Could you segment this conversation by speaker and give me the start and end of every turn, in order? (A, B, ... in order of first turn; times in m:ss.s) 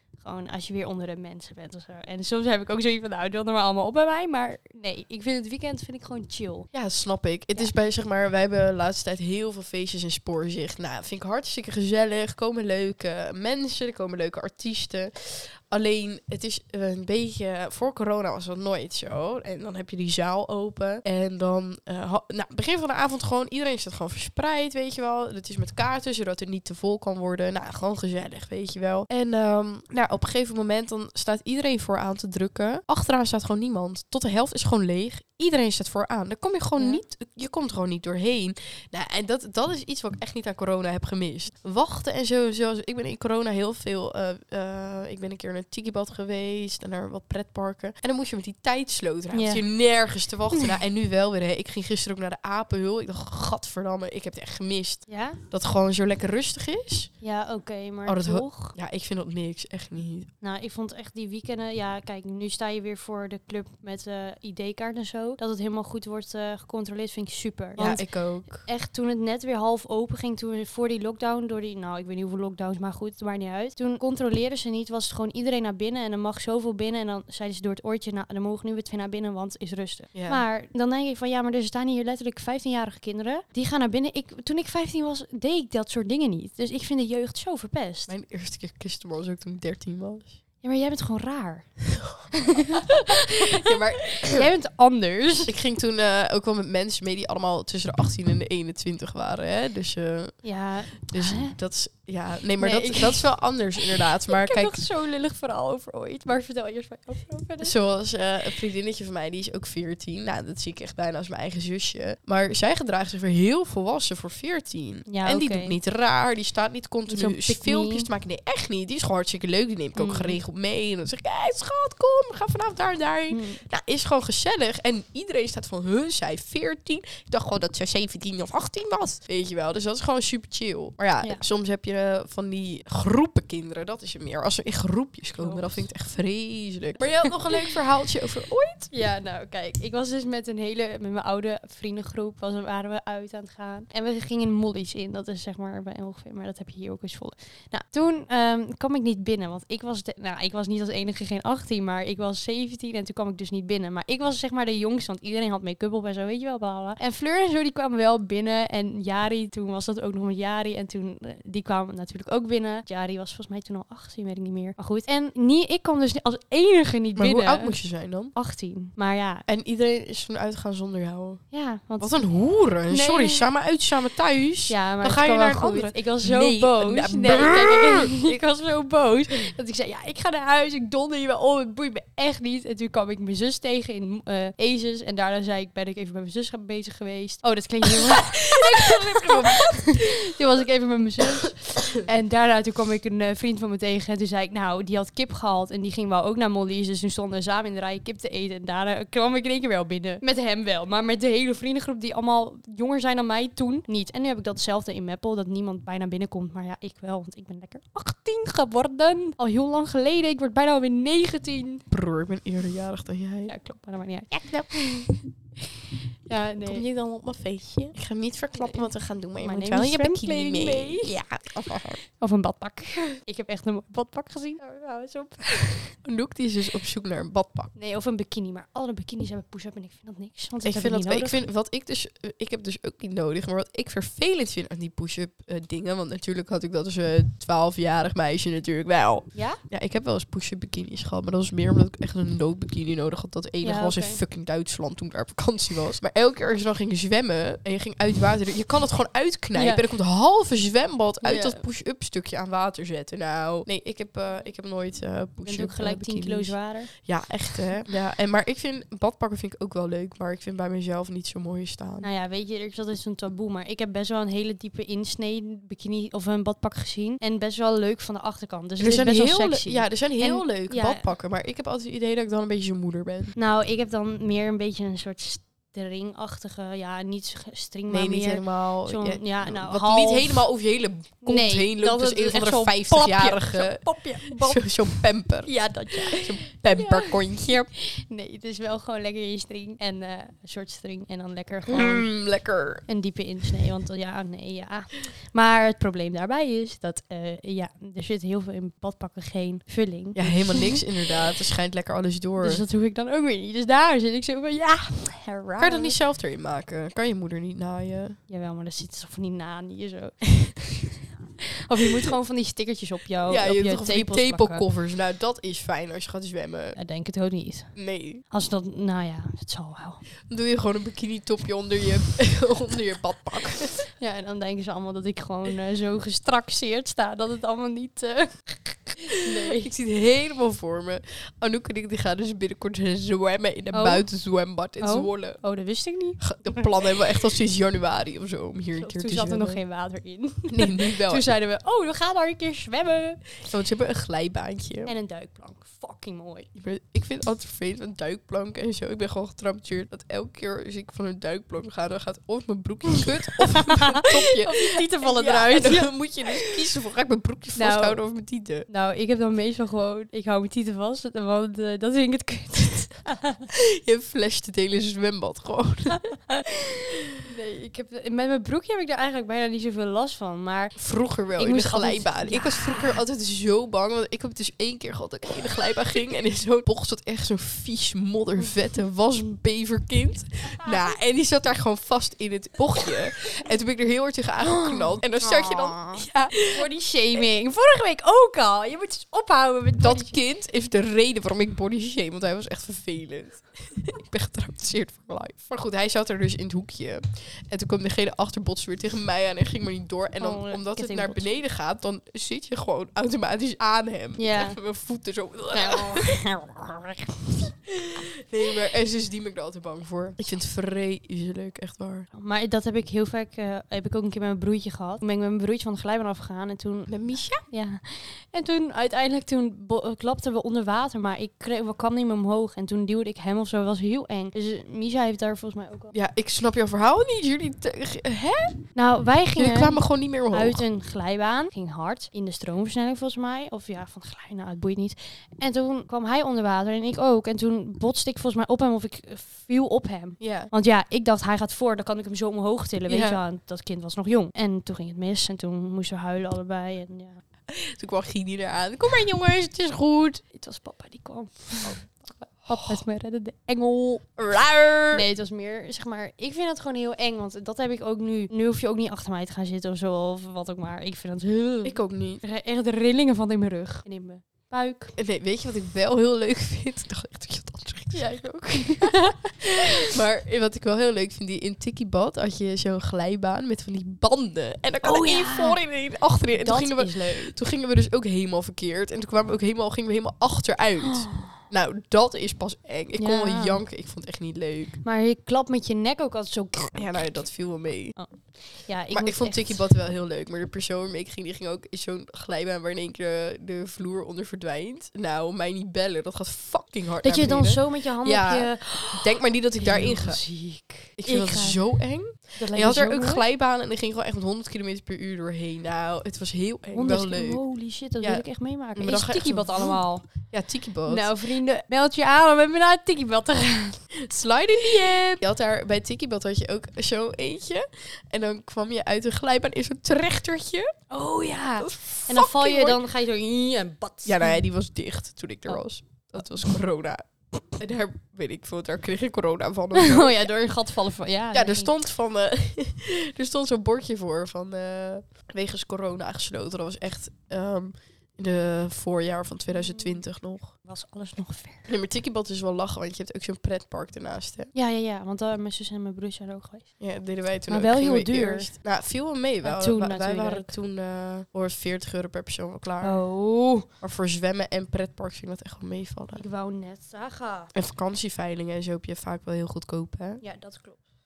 0:00.2-0:06.7 A
0:06.7-0:57.1 B
0:36.8-0:37.0 A
0:49.3-0:49.7 A
0:55.1-0:55.4 A
0:57.2-0:58.8 A
0:58.1-1:00.3 B
1:00.4-1:28.1 A
1:07.8-1:08.7 B
1:20.1-1:20.4 B
1:28.1-1:30.4 B
1:30.6-1:31.8 A
1:32.1-1:34.5 B
1:32.4-1:35.5 A
1:35.5-1:40.4 B
1:40.4-1:41.6 A
1:41.1-1:44.8 B
1:42.6-1:43.3 A
1:43.9-1:47.8 A
1:47.6-2:18.9 B
1:55.1-1:55.8 A
1:57.1-1:58.1 A
2:00.0-2:00.4 A
2:03.3-2:03.6 A
2:15.4-2:15.9 A
2:18.9-2:47.8 A
2:47.2-2:48.3 B
2:48.3-2:49.4 A
2:49.5-2:51.4 B
2:51.5-2:52.2 A
2:52.0-2:58.2 B
2:52.9-2:53.5 A
2:54.7-3:31.8 A
3:08.4-3:10.2 B
3:31.9-3:33.5 B
3:33.5-3:36.8 A
3:36.6-3:42.0 B
3:38.5-3:46.0 A
3:46.0-3:47.7 B
3:47.8-3:51.4 A
3:50.6-4:22.1 B
3:59.3-3:59.6 A
4:03.6-4:04.2 A
4:09.5-4:09.8 A
4:11.2-4:11.6 A
4:15.4-4:16.9 A
4:22.0-4:31.1 A
4:28.8-4:33.4 B
4:33.4-4:40.5 A
4:37.9-4:47.6 B
4:41.2-4:52.1 A
4:51.7-4:52.9 B
4:52.9-5:00.9 A
5:00.2-5:02.6 B
5:02.4-5:06.0 A
5:05.6-5:08.2 B
5:08.3-5:14.6 A
5:13.3-5:16.8 B
5:16.8-5:20.0 A
5:17.8-5:18.2 B
5:20.3-5:23.9 B
5:24.0-5:29.7 A
5:29.3-5:35.4 B
5:33.7-5:34.1 A
5:34.8-5:36.9 A
5:36.2-5:39.6 B
5:38.8-5:43.2 A
5:40.5-5:41.3 B
5:43.4-5:44.9 B
5:44.9-5:46.5 A
5:46.6-5:58.7 B
5:53.7-5:56.6 A
5:57.6-5:58.0 A
5:58.7-6:03.5 A
6:03.6-6:06.1 B
6:07.2-6:13.0 A
6:10.8-6:26.6 B
6:20.6-6:20.9 A
6:24.4-6:30.2 A
6:29.8-6:46.2 B
6:40.2-6:41.4 A
6:44.2-6:44.6 A
6:45.5-6:47.5 A
6:47.7-6:52.1 B
6:52.1-7:05.9 A
6:56.9-6:57.4 B
7:05.9-7:08.6 B
7:08.8-7:27.2 A
7:09.4-7:10.6 B
7:20.2-7:20.5 B
7:22.9-7:23.2 B
7:27.5-7:30.2 B
7:30.3-7:34.1 A
7:32.5-7:32.8 B
7:34.2-7:35.0 B
7:34.9-7:45.0 A
7:41.6-7:42.2 B
7:45.0-8:04.8 B
7:47.9-7:49.9 A
7:54.8-7:55.6 A
7:56.3-7:57.3 A
8:00.8-8:01.4 A
8:03.0-8:03.6 A
8:04.8-8:07.1 A
8:06.7-8:08.0 B
8:08.0-8:09.7 A
8:08.9-8:20.2 B
8:17.0-8:21.6 A
8:21.0-8:27.4 B
8:22.4-8:23.2 A
8:26.7-8:30.1 A
8:28.8-8:31.1 B
8:30.8-8:33.8 A
8:34.0-8:40.8 B
8:34.7-8:35.0 A
8:40.9-8:44.4 A
8:41.6-8:42.8 B
8:44.0-8:50.3 B
8:46.2-8:46.6 A
8:49.7-8:51.7 A
8:51.3-9:00.6 B
8:59.5-9:00.0 A
9:00.6-9:01.7 A
9:01.7-9:04.5 B
9:04.5-9:06.7 A
9:06.8-9:13.0 B
9:07.5-9:08.5 A
9:09.4-9:10.5 A
9:12.8-9:13.7 A
9:13.8-9:16.2 B
9:16.2-9:17.5 A
9:17.5-9:20.2 B
9:20.2-9:20.8 A